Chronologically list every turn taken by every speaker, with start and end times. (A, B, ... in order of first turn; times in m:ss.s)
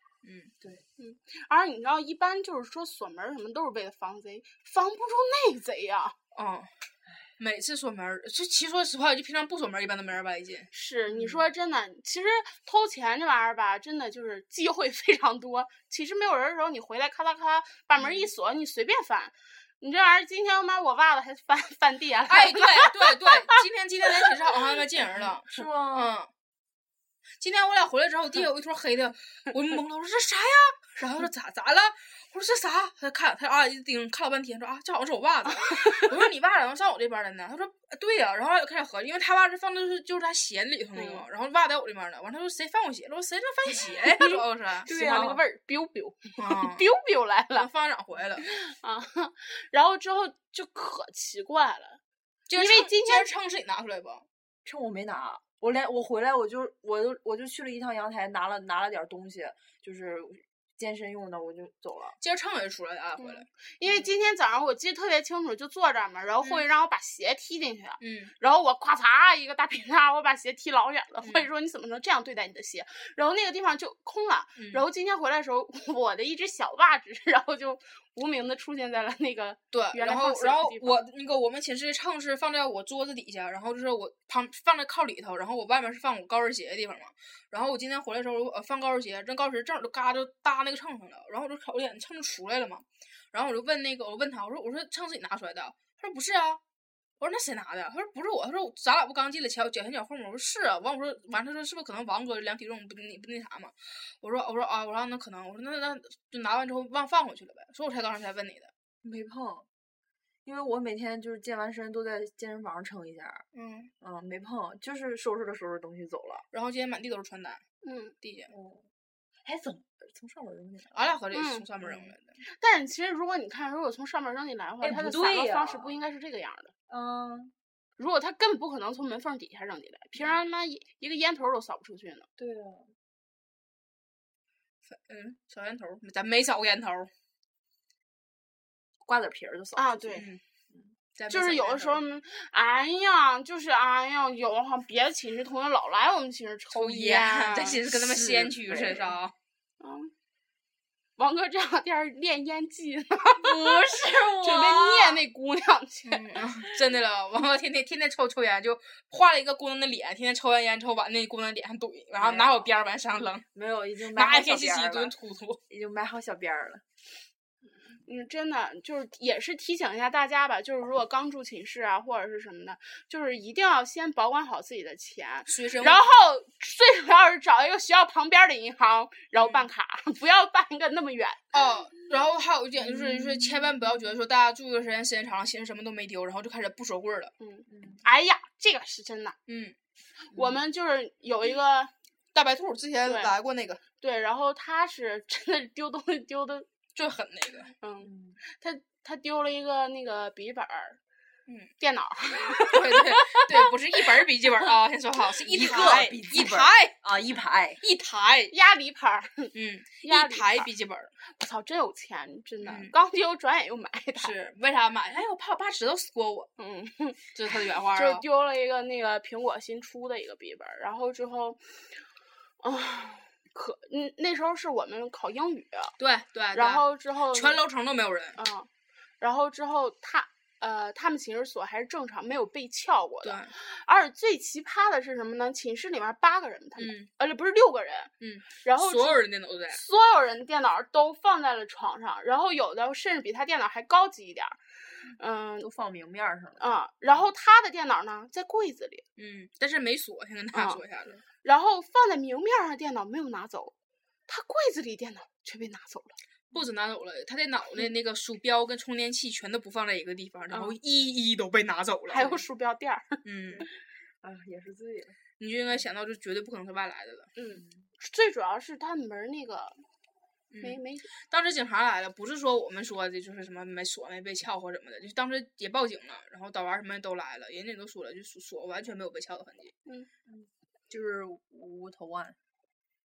0:00.2-0:00.5 A
0:01.0-0:06.2 B
0:06.3-0:06.7 A
0:07.4-0:10.7 A
0:10.7-0:23.6 B
0:11.1-0:11.4 C
0:22.3-0:26.3 A
0:25.1-0:26.1 C
0:27.4-0:44.9 A
0:35.6-0:36.1 B
0:41.0-0:41.2 B
0:43.8-0:47.7 B
0:44.9-0:45.4 C
0:46.4-0:46.9 A
0:47.6-0:48.5 A
0:48.4-0:52.0 B
0:52.5-0:54.3 A
0:52.6-0:53.3 B
0:54.6-1:02.2 C
1:02.2-1:03.5 A
1:03.2-1:21.0 B
1:08.0-1:08.3 A
1:14.6-1:14.8 A
1:19.7-1:36.6 A
1:37.2-1:48.7 A
1:49.0-1:49.7 C
1:50.4-1:53.4 C
1:53.5-1:53.9 A
1:54.0-1:56.5 C
1:56.5-1:57.6 A
1:57.8-1:58.1 B
1:58.2-1:58.5 A
1:58.5-1:58.9 C
1:59.4-2:01.0 C
2:00.9-2:02.4 A
2:01.3-2:01.6 B
2:01.8-2:02.1 C
2:02.4-2:06.7 B
2:04.8-2:06.0 C
2:06.9-2:07.5 C
2:08.0-2:12.3 B
2:12.4-2:12.9 C
2:14.9-2:17.1 A
2:19.0-2:20.9 C
2:19.8-2:20.3 B
2:20.2-2:20.4 A
2:21.2-2:22.0 A
2:21.3-2:27.8 B
2:26.7-2:29.3 A
2:27.9-2:29.2 C
2:29.8-2:30.1 B
2:31.2-2:36.2 B
2:33.4-2:35.2 C
2:36.1-2:43.4 A
2:42.2-2:42.7 C
2:43.5-2:45.2 C
2:44.1-2:45.6 A
2:45.7-2:46.8 C
2:48.0-3:01.5 B
2:55.5-2:56.0 A
2:59.4-2:59.7 A
3:01.5-3:07.3 A
3:02.8-3:03.7 C
3:07.4-3:09.4 B
3:07.7-3:08.0 C
3:09.5-3:09.8 A
3:10.3-3:10.6 C
3:10.3-3:11.9 B
3:12.4-3:13.8 A
3:13.0-3:13.3 B
3:14.0-3:16.7 B
3:17.0-3:17.7 A
3:17.8-3:21.0 B
3:18.0-3:18.4 C
3:21.8-3:23.7 B
3:22.6-3:27.0 A
3:25.5-3:27.8 C
3:27.8-3:28.5 A
3:28.5-3:29.5 B
3:29.5-3:31.1 A
3:30.0-3:30.7 B
3:31.3-3:34.3 B
3:32.6-3:32.9 A
3:34.2-3:36.5 A
3:36.6-3:37.3 B
3:37.3-3:38.2 A
3:37.9-3:41.6 B
3:42.6-3:45.9 B
3:46.0-3:48.4 A
3:46.5-3:47.6 B
3:48.4-3:48.7 B
3:49.2-4:05.7 B
3:53.2-3:53.5 A
3:56.8-3:57.1 A
3:58.2-3:59.8 A
4:05.6-4:07.2 C
4:06.6-4:09.0 B
4:09.2-4:11.2 A
4:10.5-4:10.8 B
4:11.4-4:13.7 B
4:14.3-4:16.2 B
4:16.5-4:22.4 A
4:20.5-4:20.8 B
4:22.1-4:23.7 B
4:23.2-4:23.7 A
4:24.2-4:25.2 C
4:25.4-4:27.3 A
4:27.4-4:29.8 B
4:27.6-4:27.9 C
4:30.5-4:39.7 A
4:30.6-4:31.1 B
4:40.3-4:42.4 C